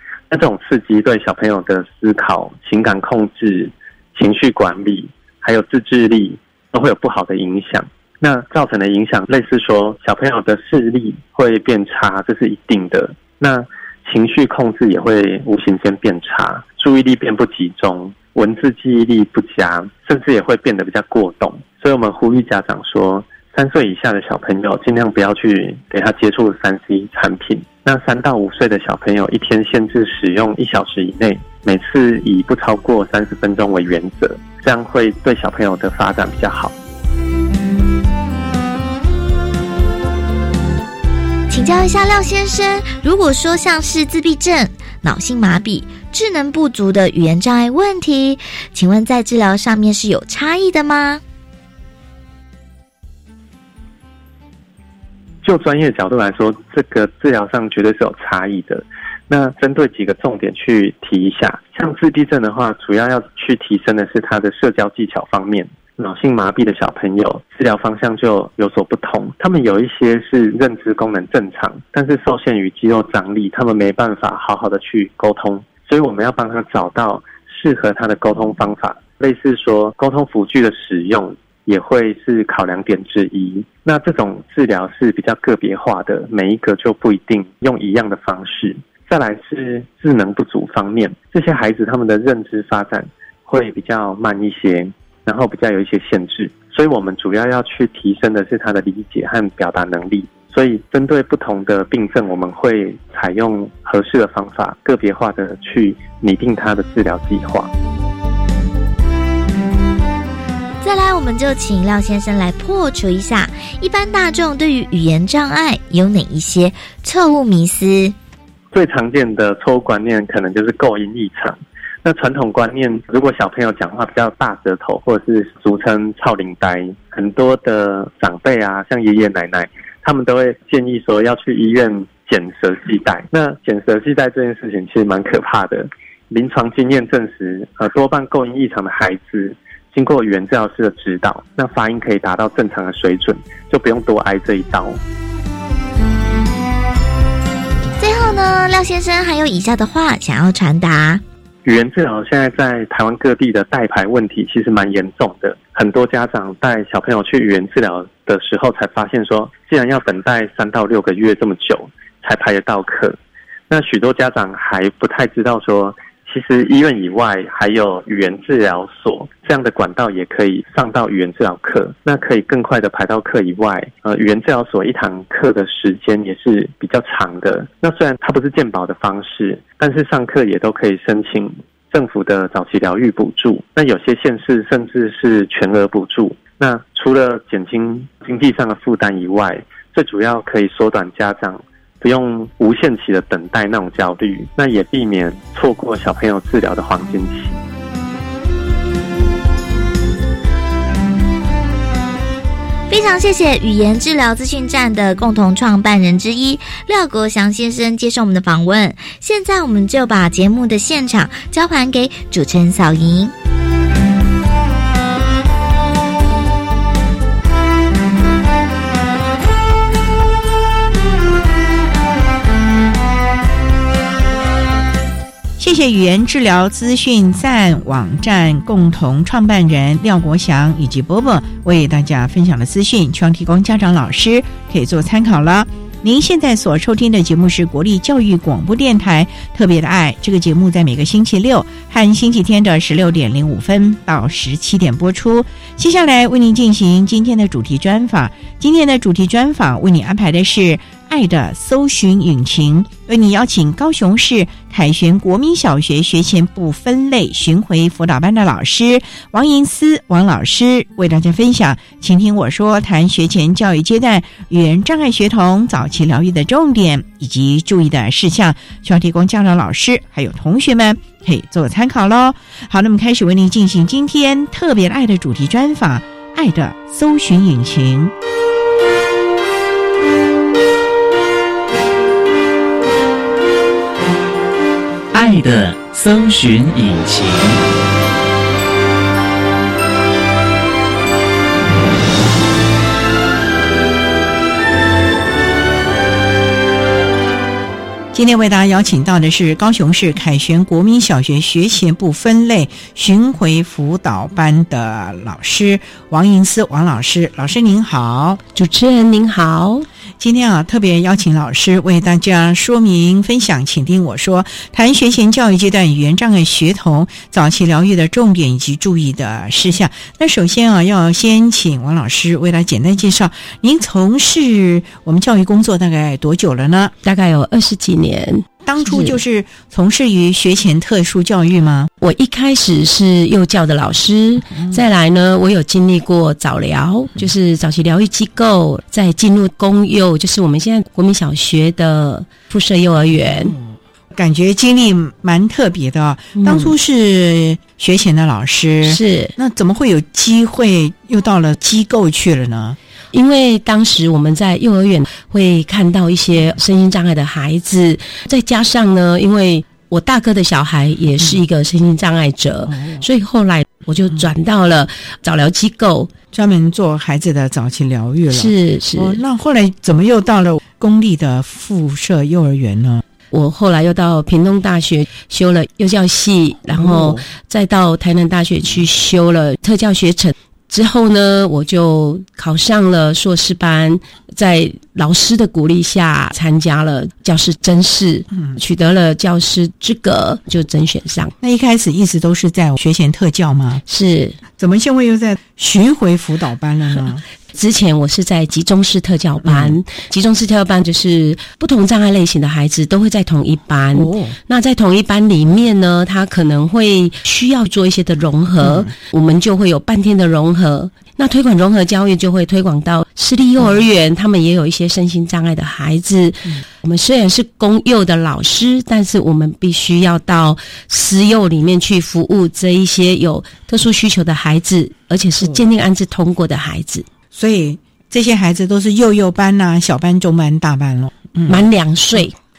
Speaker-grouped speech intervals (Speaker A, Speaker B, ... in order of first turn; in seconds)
Speaker A: 0.3-36.7, 55.4-107.7, 118.7-145.0, 151.6-163.2, 163.7-197.6
Speaker B: 41.5-51.2, 110.8-118.1, 148.0-151.2, 202.9-213.3
Speaker C: 225.6-278.1, 298.1-308.4, 310.2-326.9, 328.6-331.9, 334.5-334.8, 343.1-352.8, 362.7-363.0, 366.3-373.0, 376.7-377.2, 391.4-393.8, 394.6-397.2, 399.4-399.8, 403.9-404.4, 408.6-408.9, 427.3-431.6
Speaker D: 285.1-287.6
Speaker E: 308.5-309.9, 327.0-329.2, 332.0-343.5, 346.3-346.7, 348.8-349.3, 353.1-366.1, 368.3-369.2, 373.3-391.3, 393.9-394.4, 397.5-427.1, 431.5-432.3